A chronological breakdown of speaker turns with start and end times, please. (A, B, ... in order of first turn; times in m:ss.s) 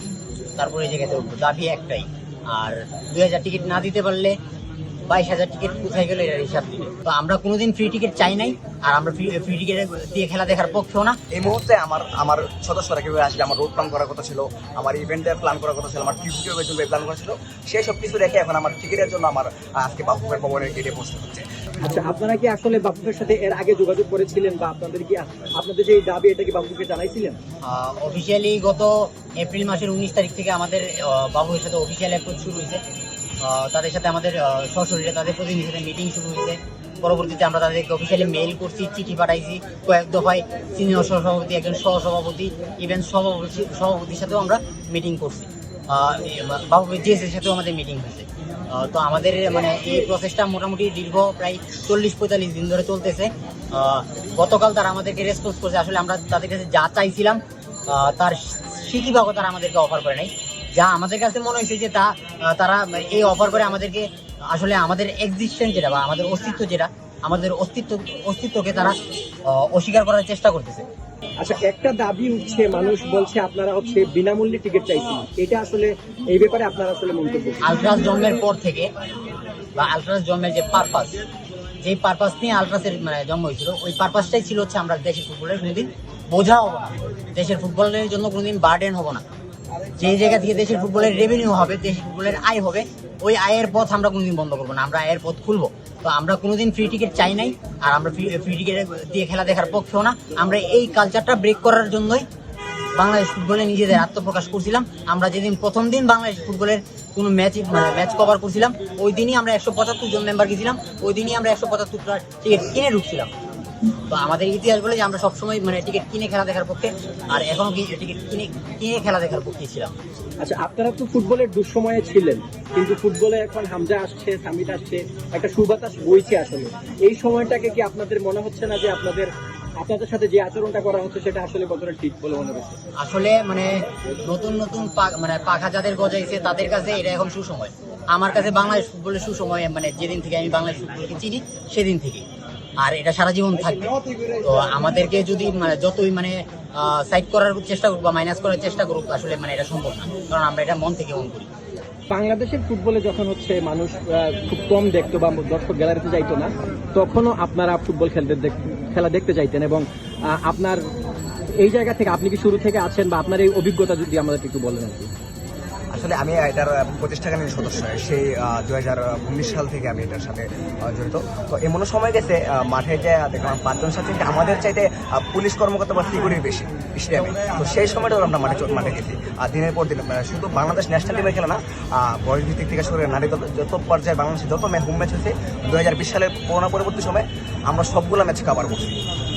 0:00.6-0:04.4 A
0:05.1-0:11.2 A
0:11.3-0:21.5 B
0:21.8-0:27.4 C
0:27.6-0:32.8 A
0:33.4-1:10.9 A
1:11.4-1:17.6 C
1:17.6-1:18.9 A
1:19.8-1:21.2 A
1:21.8-1:29.2 A
1:30.0-1:42.3 A
1:43.0-1:53.3 A
1:54.1-1:59.9 A
2:00.4-2:12.8 C
2:13.0-2:22.3 A
2:22.8-2:31.5 A
2:32.1-2:40.9 C
2:41.6-2:45.1 C
2:45.9-3:09.0 B